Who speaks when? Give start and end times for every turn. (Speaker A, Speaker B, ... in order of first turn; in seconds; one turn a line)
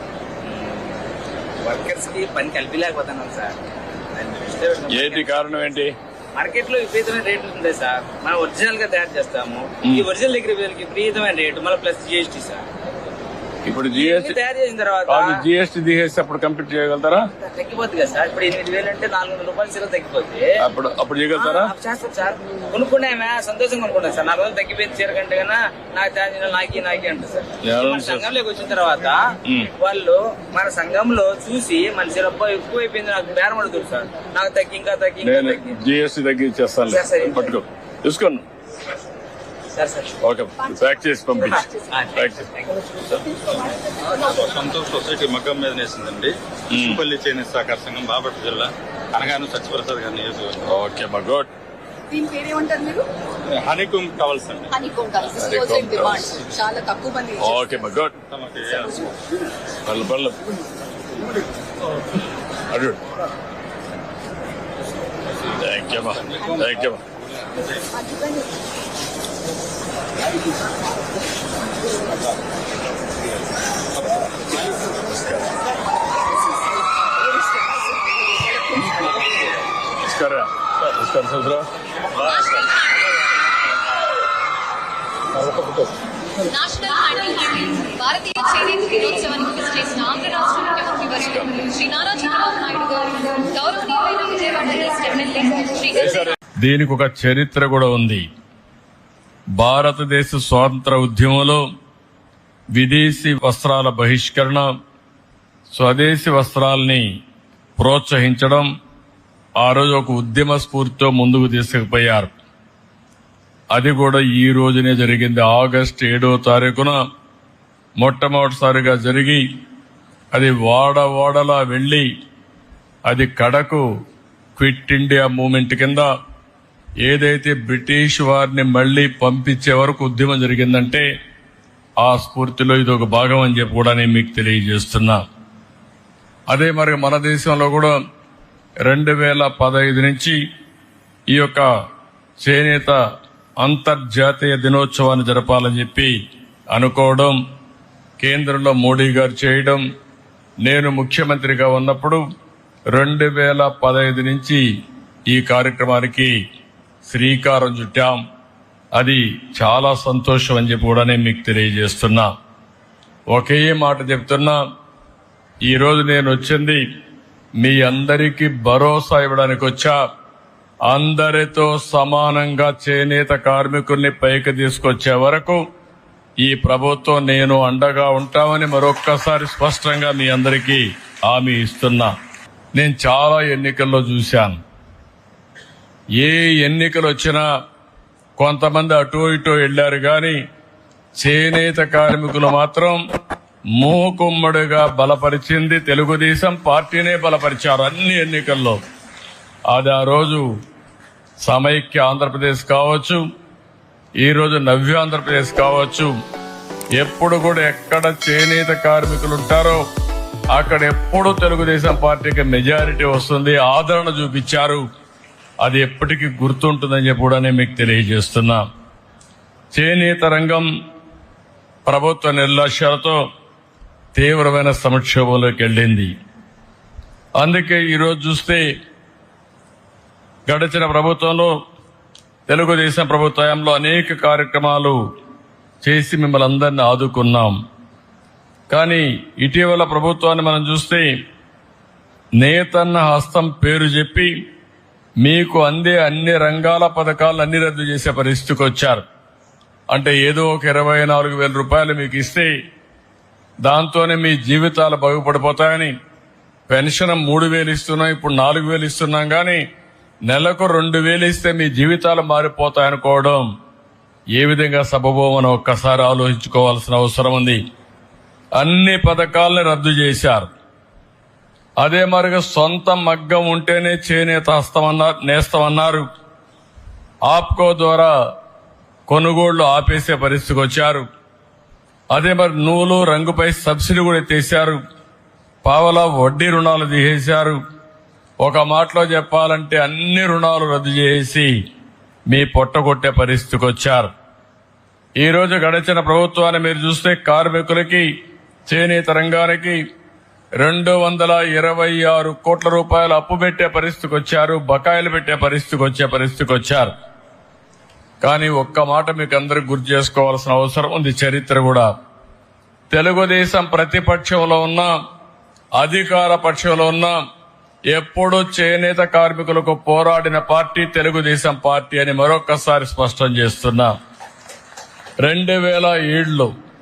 Speaker A: 0.4-0.9
Speaker A: 1.6-3.5
Speaker A: 4.2-5.8
Speaker B: 4.9-5.9
Speaker A: 6.3-12.6
Speaker B: 13.7-14.4
Speaker A: 13.9-15.4
Speaker B: 15.1-17.3
Speaker A: 17.4-20.5
Speaker B: 20.6-21.7
Speaker A: 21.4-29.2
Speaker B: 27.6-28.3
Speaker B: 29.5-29.7
Speaker A: 29.8-35.8
Speaker B: 35.2-38.5
Speaker A: 36.9-37.6
Speaker A: 39.7-40.1
Speaker B: 40.2-41.6
Speaker C: 40.6-42.0
Speaker A: 41.5-43.0
Speaker B: 42.2-42.5
Speaker C: 43.0-44.7
Speaker D: 44.3-50.6
Speaker B: 46.7-47.0
Speaker B: 50.7-51.5
Speaker C: 52.1-53.0
Speaker D: 53.5-54.7
Speaker C: 54.7-57.9
Speaker B: 55.4-56.3
Speaker B: 57.4-58.1
Speaker D: 58.3-59.0
Speaker B: 59.9-60.4
Speaker B: 62.7-63.0
Speaker B: 65.6-67.0
Speaker C: 67.9-68.6
Speaker B: 75.1-75.5
Speaker C: 76.1-79.3
Speaker B: 80.0-81.7
Speaker E: 82.2-83.0
Speaker E: 86.4-96.2
Speaker B: 91.2-91.5
Speaker B: 95.9-98.3
Speaker B: 99.6-101.6
Speaker B: 102.7-104.7
Speaker B: 105.7-107.0
Speaker B: 107.8-108.7
Speaker B: 109.6-112.3
Speaker B: 113.7-117.0
Speaker B: 118.0-119.4
Speaker B: 120.3-122.1
Speaker B: 123.1-123.8
Speaker B: 124.6-126.1
Speaker B: 127.0-131.1
Speaker B: 132.0-135.2
Speaker B: 136.5-137.9
Speaker B: 138.8-140.4
Speaker B: 141.3-141.7
Speaker B: 142.4-143.0
Speaker B: 143.6-146.2
Speaker B: 146.7-147.4
Speaker B: 148.2-149.8
Speaker B: 150.6-152.2
Speaker B: 152.9-154.6
Speaker B: 155.3-156.3
Speaker B: 157.1-158.2
Speaker B: 158.9-162.3
Speaker B: 163.3-164.6
Speaker B: 165.6-166.8
Speaker B: 167.6-170.0
Speaker B: 170.9-175.6
Speaker B: 176.4-182.1
Speaker B: 182.8-184.6
Speaker B: 186.2-187.4
Speaker B: 188.4-190.4
Speaker B: 191.2-193.0
Speaker B: 193.8-198.8
Speaker B: 199.7-200.5
Speaker B: 201.4-203.2
Speaker B: 204.2-206.1
Speaker B: 207.0-209.8
Speaker B: 210.5-214.8
Speaker B: 215.6-218.6
Speaker B: 219.7-220.7
Speaker B: 221.9-223.2
Speaker B: 224.2-226.1
Speaker B: 227.4-228.7
Speaker B: 230.5-231.5
Speaker B: 232.5-235.0
Speaker B: 235.8-237.6
Speaker B: 238.7-241.1
Speaker B: 242.4-244.3
Speaker B: 245.2-249.0
Speaker B: 249.9-252.5
Speaker B: 253.6-255.9
Speaker B: 256.7-259.6
Speaker B: 260.3-263.4
Speaker B: 264.4-267.6
Speaker B: 268.6-270.5
Speaker B: 271.8-276.1
Speaker B: 277.3-278.1
Speaker B: 279.1-281.1
Speaker B: 282.1-284.8
Speaker B: 285.6-287.6
Speaker B: 288.4-291.5
Speaker B: 292.3-294.1
Speaker B: 295.2-298.1
Speaker B: 298.7-299.8
Speaker B: 300.6-306.9
Speaker B: 308.2-311.9
Speaker B: 312.9-314.9
Speaker B: 315.8-317.2
Speaker B: 317.9-323.9
Speaker B: 325.2-326.5